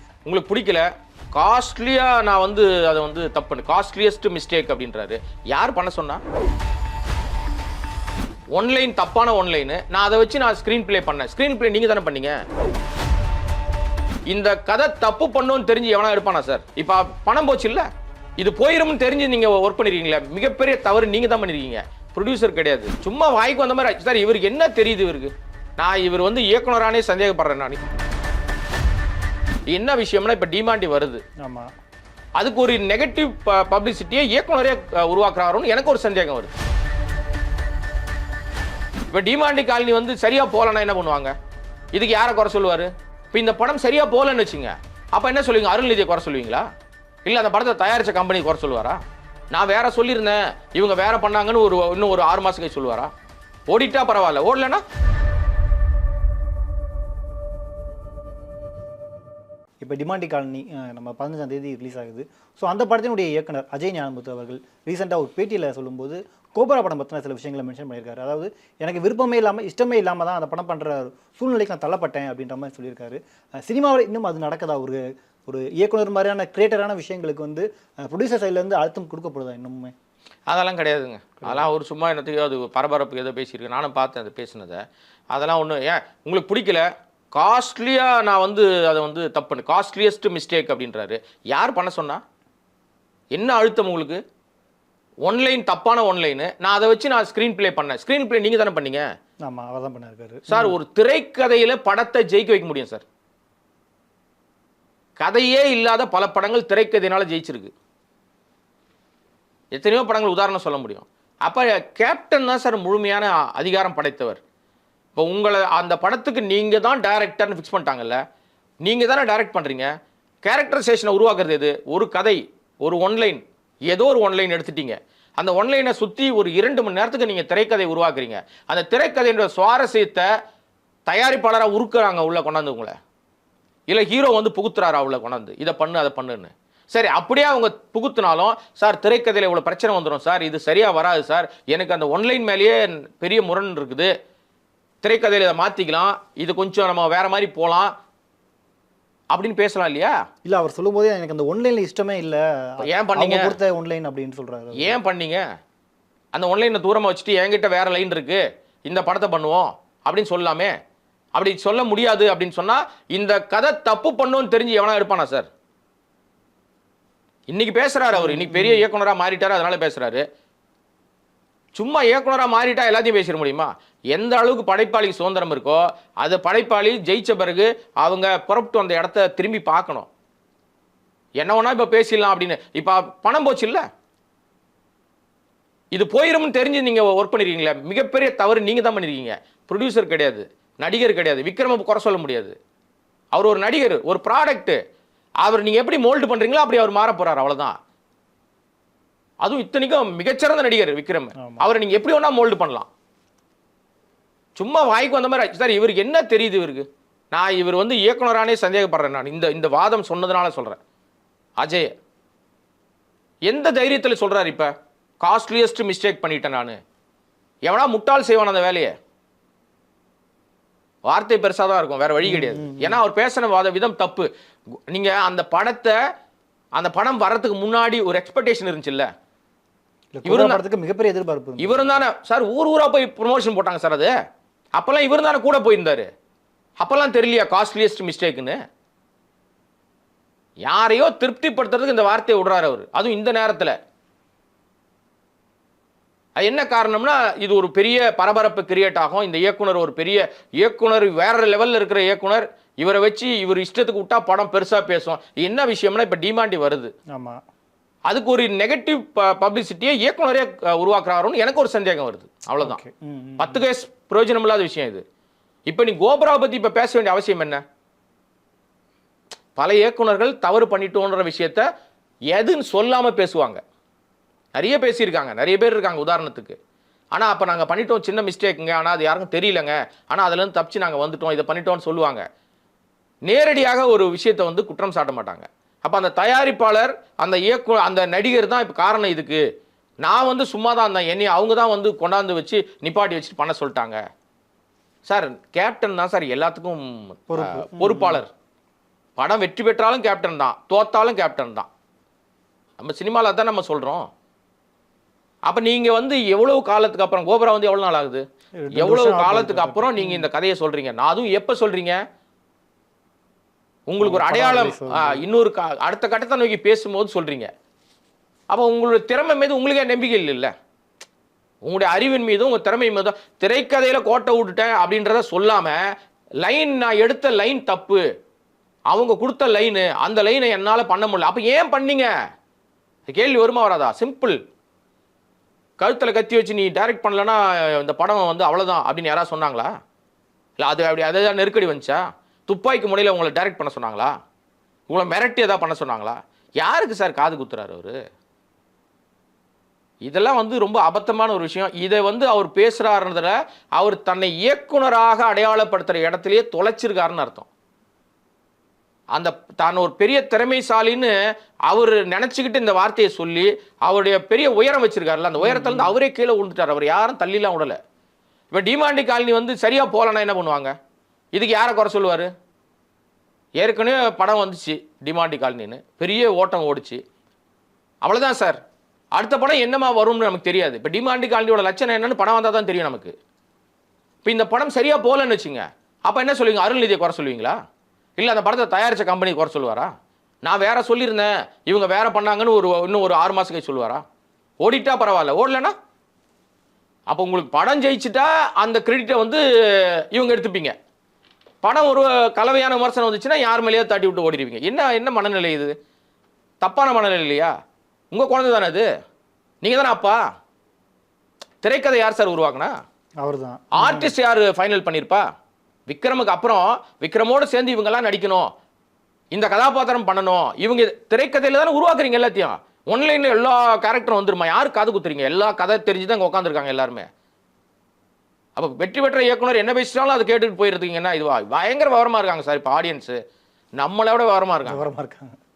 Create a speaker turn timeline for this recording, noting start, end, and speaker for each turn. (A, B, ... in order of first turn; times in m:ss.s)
0:00.3-0:06.2 A
0:08.5-0:12.4 A
0:14.3-0:27.8 A
0:29.7-0:31.2 A
0:31.4-0:31.7 B
0:32.4-0:36.5 A
0:39.1-0:41.3 A
0:41.9-0:46.7 A
0:47.2-0:53.1 A
0:53.7-0:54.8 A
0:59.8-1:19.9 B
1:20.5-1:32.2 A
1:33.3-1:34.2 A
1:35.2-1:39.0 A
1:39.5-1:40.8 B
1:40.5-1:43.0 A
1:45.2-1:47.7 A
1:49.7-1:54.4 A
1:55.2-1:58.2 A
1:58.8-1:59.9 A
2:00.4-2:10.3 A
2:11.1-2:12.9 A
2:13.9-2:24.1 A
2:25.0-2:27.9 A
2:29.3-2:30.2 A
2:30.5-2:35.0 B
2:32.8-2:33.5 A
2:34.8-2:35.4 A
2:36.3-2:40.7 A
2:41.4-2:45.5 A
2:47.5-2:50.2 A
2:48.1-2:48.8 B
2:51.8-3:00.1 A
3:01.4-3:03.8 A
3:05.9-3:12.6 A
3:13.3-3:14.8 A
3:15.4-3:17.7 A
3:19.4-3:22.9 A
3:24.6-3:30.8 A
3:31.6-3:31.9 A
3:33.5-3:36.8 A
3:37.7-3:38.9 A
3:41.1-3:44.3 A
3:42.2-3:43.0 B
3:44.9-3:46.0 A
3:46.8-3:49.1 A
3:50.1-3:52.0 B
3:50.2-3:50.6 A
3:51.6-3:54.1 A
3:54.8-3:56.1 A
3:56.8-3:58.6 A
4:00.7-4:03.8 A
4:06.4-4:16.9 A
4:17.1-4:17.4 B
4:18.1-4:22.8 A
4:22.6-4:23.6 B
4:23.4-4:25.0 A
4:25.7-4:27.6 A
4:29.6-4:31.7 A
4:32.3-4:33.6 A
4:34.6-4:36.6 A
4:37.1-4:42.2 A
4:43.3-4:49.4 A
4:50.0-4:54.0 A
4:55.1-4:58.3 A
4:57.3-4:58.2 B
4:59.2-5:01.7 A
5:02.8-5:04.0 A
5:05.5-5:12.0 A
5:08.6-5:10.3 B
5:13.9-5:17.5 A
5:14.0-5:15.2 B
5:18.5-5:20.5 A
5:21.6-5:25.9 A
5:26.4-5:28.0 A
5:28.9-5:32.1 A
5:33.1-5:34.4 A
5:35.8-5:39.7 A
5:40.6-5:44.1 A
5:44.9-5:48.0 A
5:50.0-5:57.5 A
5:59.2-6:01.2 A
6:01.7-6:07.8 A
6:05.4-6:06.0 B
6:08.5-6:10.7 A
6:11.3-6:12.3 A
6:13.6-6:17.0 A
6:18.0-6:18.6 A
6:19.2-6:23.1 A
6:24.2-6:27.6 A
6:28.2-6:29.9 A
6:30.4-6:34.0 A
6:34.6-6:35.7 A
6:37.1-6:40.8 A
6:41.6-6:45.8 A
6:46.6-6:47.5 A
6:48.1-6:48.9 A
6:49.6-6:50.2 A
6:51.6-6:52.8 A
6:53.2-6:54.1 B
6:53.7-6:55.2 A
6:55.9-6:58.5 A
6:59.3-7:07.1 A
7:08.6-7:13.2 A
7:13.8-7:14.8 A
7:14.6-7:15.4 B